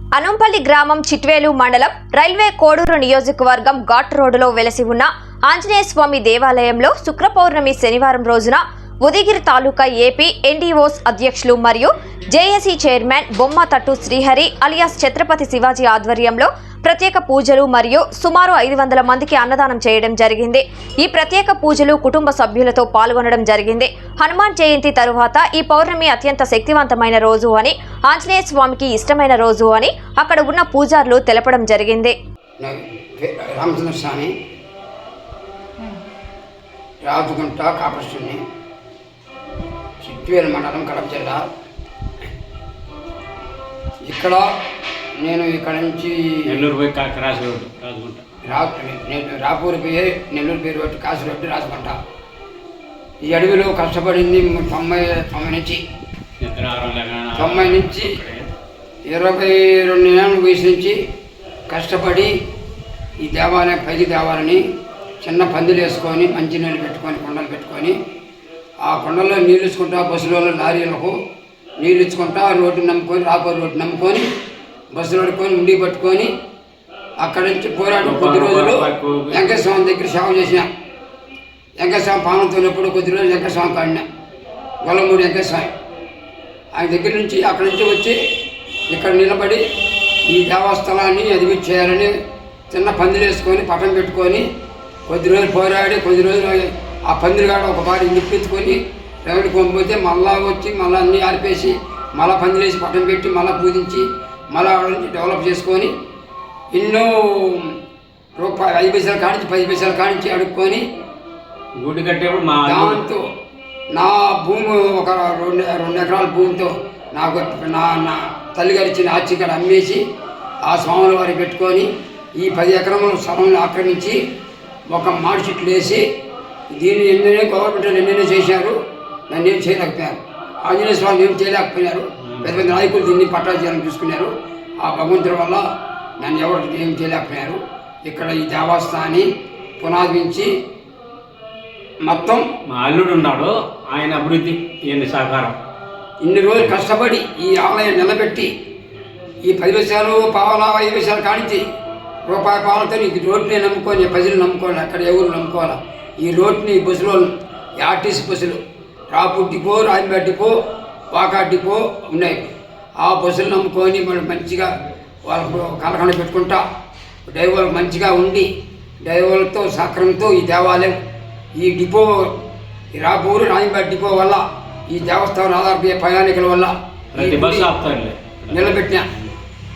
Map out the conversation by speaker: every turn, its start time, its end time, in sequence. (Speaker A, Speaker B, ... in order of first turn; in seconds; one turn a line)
Speaker A: 0.2-32.1
Speaker B: 32.6-34.3
Speaker B: 37.0-38.4
Speaker B: 40.0-41.4
Speaker B: 44.0-44.5
Speaker B: 45.2-46.4
Speaker C: 46.5-48.2
Speaker B: 48.5-52.0
Speaker B: 53.2-55.8
Speaker C: 56.4-58.5
Speaker B: 57.4-58.1
Speaker B: 59.1-61.0
Speaker B: 61.7-62.3
Speaker B: 63.2-64.6
Speaker B: 65.2-68.0
Speaker B: 68.8-71.1
Speaker B: 71.8-74.3
Speaker B: 74.9-76.3
Speaker B: 77.2-80.7
Speaker C: 78.0-79.6
Speaker B: 81.8-84.0
Speaker B: 84.8-85.7
Speaker B: 86.8-88.2
Speaker B: 88.9-89.6
Speaker B: 90.3-92.1
Speaker B: 92.7-94.4
Speaker B: 95.1-105.9
Speaker B: 106.7-107.7
Speaker B: 108.4-110.8
Speaker C: 111.8-113.0
Speaker B: 112.7-113.3
Speaker B: 113.9-120.0
Speaker B: 120.7-124.2
Speaker B: 124.9-126.0
Speaker B: 126.7-128.8
Speaker B: 129.3-135.6
Speaker C: 132.2-132.8
Speaker B: 136.2-139.3
Speaker B: 139.8-140.5
Speaker B: 142.0-142.4
Speaker C: 142.7-145.6
Speaker B: 146.2-148.5
Speaker B: 149.4-151.6
Speaker B: 152.3-158.6
Speaker B: 159.1-160.5
Speaker B: 161.1-162.4
Speaker B: 163.0-164.7
Speaker B: 165.2-166.6
Speaker B: 167.3-168.5
Speaker B: 169.0-171.0
Speaker B: 171.6-172.3
Speaker B: 173.0-177.7
Speaker C: 177.2-179.3
Speaker B: 178.5-179.1